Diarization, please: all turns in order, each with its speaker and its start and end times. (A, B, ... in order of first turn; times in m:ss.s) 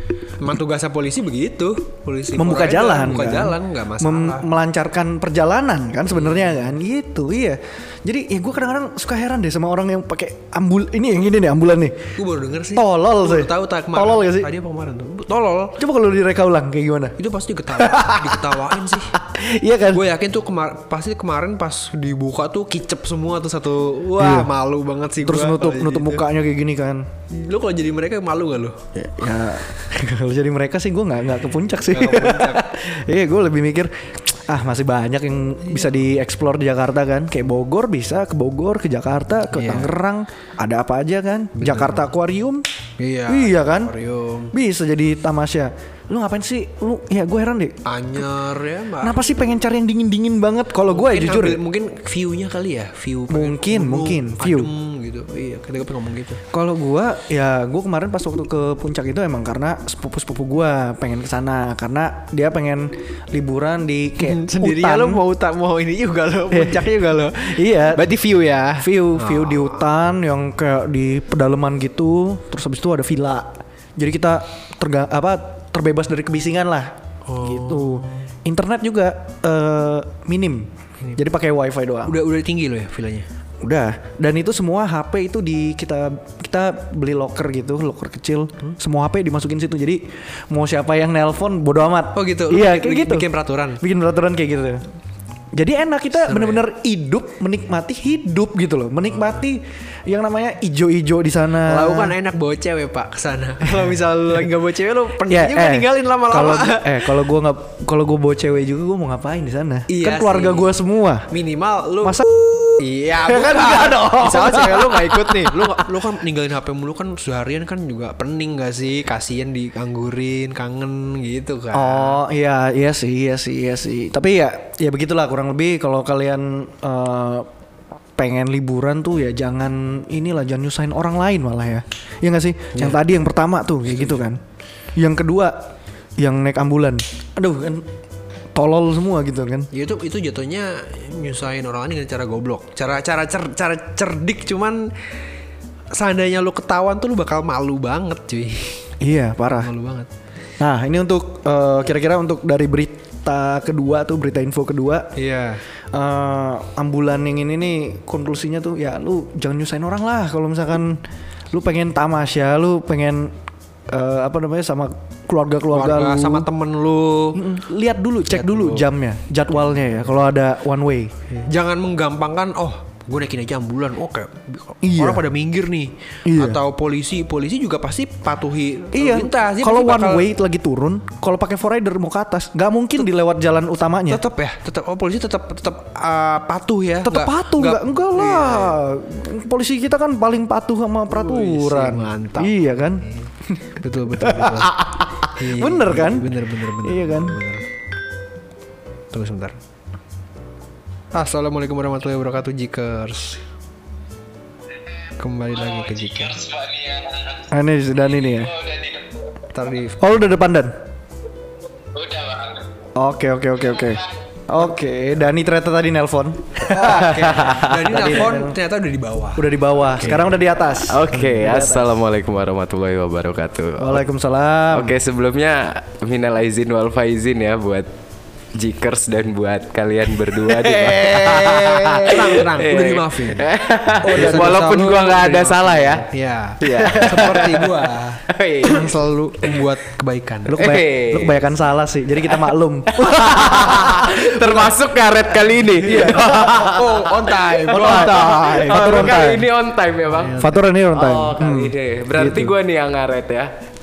0:00.4-0:04.5 A
0:02.4-0:12.1 B
0:06.1-0:06.6 A
0:12.2-0:15.8 A
0:12.8-0:14.5 B
0:15.8-0:17.2 B
0:17.2-0:19.2 A
0:17.8-0:20.0 B
0:19.9-0:26.3 A
0:24.2-0:24.5 B
0:25.2-0:27.1 B
0:27.3-0:28.9 A
0:29.0-0:42.7 B
0:31.9-0:32.7 A
0:39.5-0:40.0 A
0:41.6-0:42.0 A
0:43.0-0:44.5 A
0:43.3-0:44.0 B
0:44.5-0:47.8 B
0:47.8-0:49.2 A
0:49.0-0:51.6 B
0:50.9-0:56.4 A
0:53.3-0:54.7 B
0:56.5-1:05.2 B
1:04.2-1:09.8 A
1:06.5-1:08.1 B
1:08.8-1:22.2 B
1:17.2-1:18.2 A
1:22.1-1:23.3 A
1:23.6-1:34.8 B
1:32.1-1:33.8 A
1:35.5-1:42.2 B
1:36.2-1:36.6 A
1:41.6-1:47.3 A
1:45.3-1:51.3 B
1:49.9-1:50.7 A
1:51.3-1:52.2 A
1:52.0-1:55.9 B
1:52.8-2:02.2 A
2:01.7-2:07.5 B
2:08.2-2:14.4 B
2:12.8-2:13.0 A
2:13.9-2:14.3 A
2:15.0-2:17.9 B
2:18.6-2:19.7 B
2:19.7-2:25.1 A
2:25.9-2:28.9 A
2:29.0-2:29.7 B
2:29.6-2:30.1 A
2:30.6-2:35.1 B
2:35.2-2:35.6 A
2:35.9-2:43.4 B
2:43.9-2:46.5 B
2:45.7-2:47.4 A
2:47.4-2:51.2 B
2:48.3-2:48.9 A
2:49.7-2:50.2 A
2:51.3-3:00.3 A
2:54.8-2:55.2 B
2:56.2-2:56.6 B
2:58.9-3:04.2 B
3:04.1-3:08.8 A
3:07.0-3:13.6 B
3:11.1-3:17.7 A
3:14.1-3:17.4 B
3:19.1-3:19.6 A
3:21.1-3:23.4 A
3:25.2-3:26.8 A
3:27.4-3:28.9 B
3:29.5-3:30.0 A
3:30.0-3:30.8 B
3:33.0-3:38.6 B
3:36.6-3:39.6 A
3:37.4-3:37.7 C
3:39.4-3:41.9 B
3:40.0-3:40.3 C
3:40.8-3:44.0 C
3:43.8-3:45.0 B
3:44.7-3:47.9 C
3:48.5-3:56.1 C
3:50.6-3:53.5 A
3:54.0-4:00.6 A
3:54.2-3:54.6 B
3:56.6-3:59.6 C
3:56.7-3:57.4 B
4:00.5-4:04.7 B
4:00.6-4:01.5 C
4:02.3-4:13.5 C
4:05.8-4:09.2 A
4:05.9-4:06.4 B
4:07.7-4:09.5 B
4:10.1-4:10.6 A
4:10.4-4:12.6 B